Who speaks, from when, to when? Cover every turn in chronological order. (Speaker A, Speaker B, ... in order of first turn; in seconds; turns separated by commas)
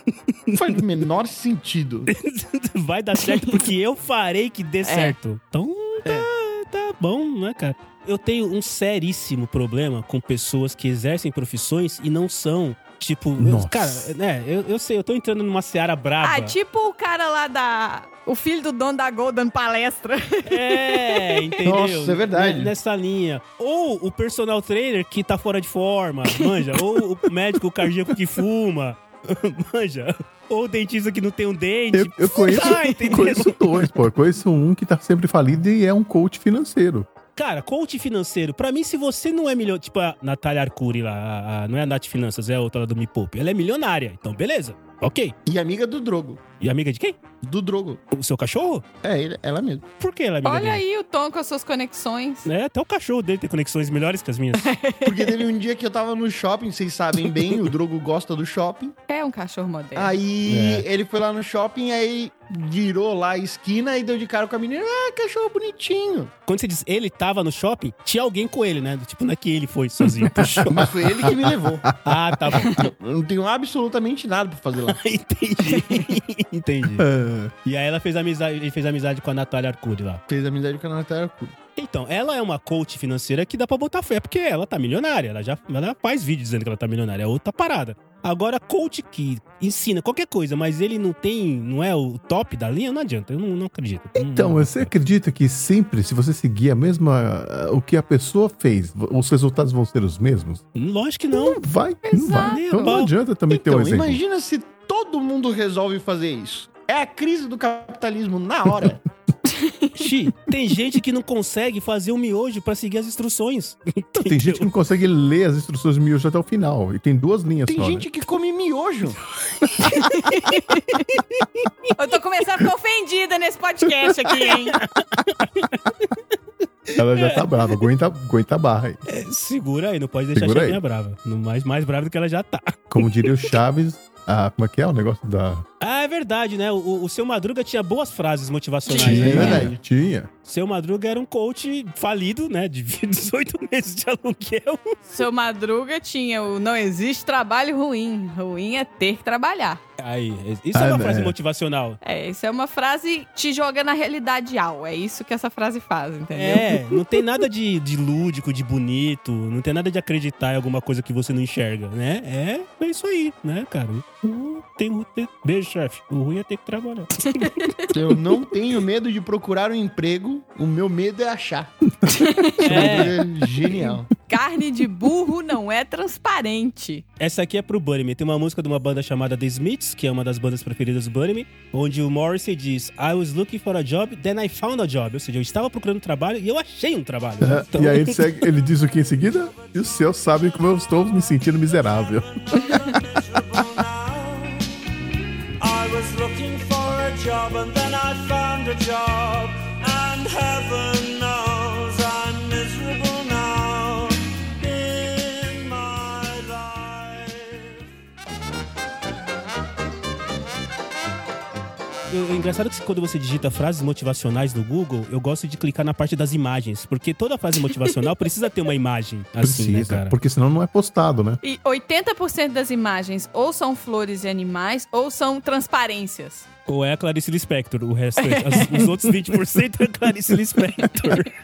Speaker A: 0.5-0.8, Speaker B: 0.5-2.1, Speaker A: 2.1-16.5, Speaker C: 3.2-3.6, Speaker C: 4.8-5.2, Speaker D: 13.4-14.1, Speaker C: 16.2-21.5, Speaker A: 20.5-33.9, Speaker B: 21.6-22.7, Speaker D: 31.9-37.1, Speaker C: 32.5-33.0, Speaker A: 37.4-45.4, Speaker B: 45.5-46.4, Speaker A: 46.6-47.2, Speaker B: 47.4-48.0, Speaker A: 48.1-48.9, Speaker B: 49.0-49.9, Speaker A: 50.0-50.8, Speaker C: 50.4-52.5, Speaker A: 52.5-54.7, Speaker C: 54.5-55.4, Speaker B: 55.0-58.9, Speaker C: 59.1-60.1, Speaker B: 60.0-66.3, Speaker A: 60.5-60.9, Speaker A: 66.5-70.8, Speaker D: 70.2-72.6, Speaker B: 70.7-71.9, Speaker A: 72.0-72.9, Speaker B: 72.7-75.0, Speaker A: 74.9-77.1, Speaker D: 77.0-77.5, Speaker A: 77.6-80.2, Speaker B: 80.3-81.5, Speaker A: 81.8-94.9, Speaker D: 94.2-100.6, Speaker A: 100.7-101.6, Speaker D: 101.4-104.2, Speaker C: 102.0-102.9, Speaker A: 102.4-103.1, Speaker B: 103.5-109.0, Speaker C: 109.5-109.9, Speaker A: 109.9-114.7, Speaker D: 114.2-118.1, Speaker B: 117.7-119.2, Speaker C: 119.8-121.1, Speaker C: 121.9-124.8, Speaker A: 124.5-126.1, Speaker D: 126.9-129.0, Speaker A: 127.0-127.7, Speaker A: 129.1-133.4, Speaker D: 130.3-130.8, Speaker D: 132.9-135.6, Speaker A: 135.8-139.7, Speaker B: 138.9-139.8, Speaker D: 138.9-140.3, Speaker A: 140.4-144.9, Speaker C: 145.1-149.8, Speaker A: 150.0-152.0, Speaker D: 150.7-151.3, Speaker C: 152.0-157.2, Speaker A: 156.3-167.6, Speaker C: 167.3-167.9, Speaker B: 167.9-171.7, Speaker C: 172.1-172.6, Speaker B: 172.3-174.1, Speaker A: 172.6-173.2, Speaker C: 174.2-177.0, Speaker A: 177.2-188.3, Speaker D: 187.4-192.8, Speaker E: 189.2-194.7, Speaker E: 195.6-207.8, Speaker A: 212.1-220.1, Speaker D: 219.4-221.4, Speaker C: 221.4-226.4, Speaker A: 226.7-231.3, Speaker C: 228.2-228.8